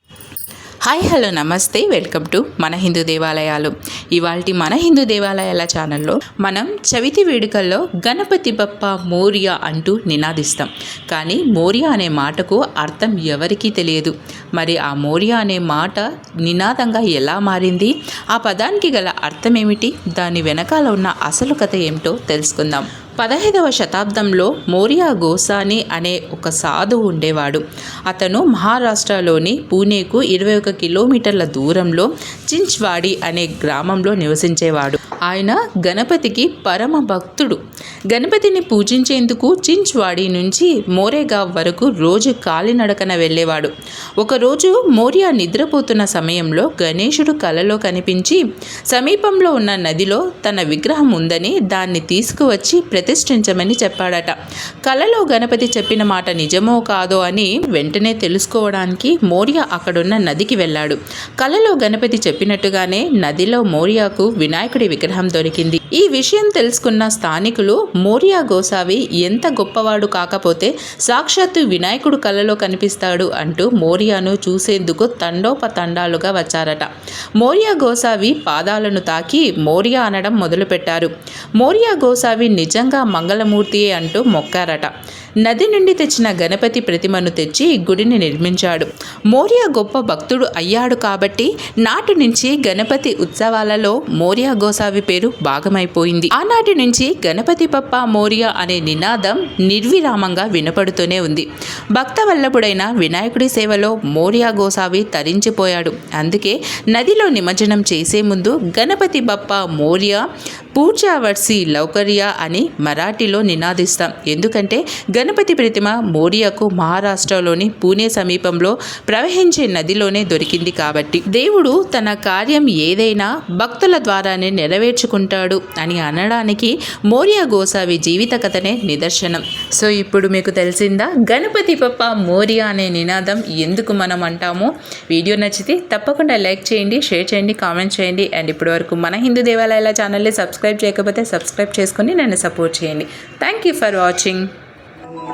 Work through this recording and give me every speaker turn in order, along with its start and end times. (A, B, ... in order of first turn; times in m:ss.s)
0:00.8-1:24.9 A
1:25.4-2:24.5 A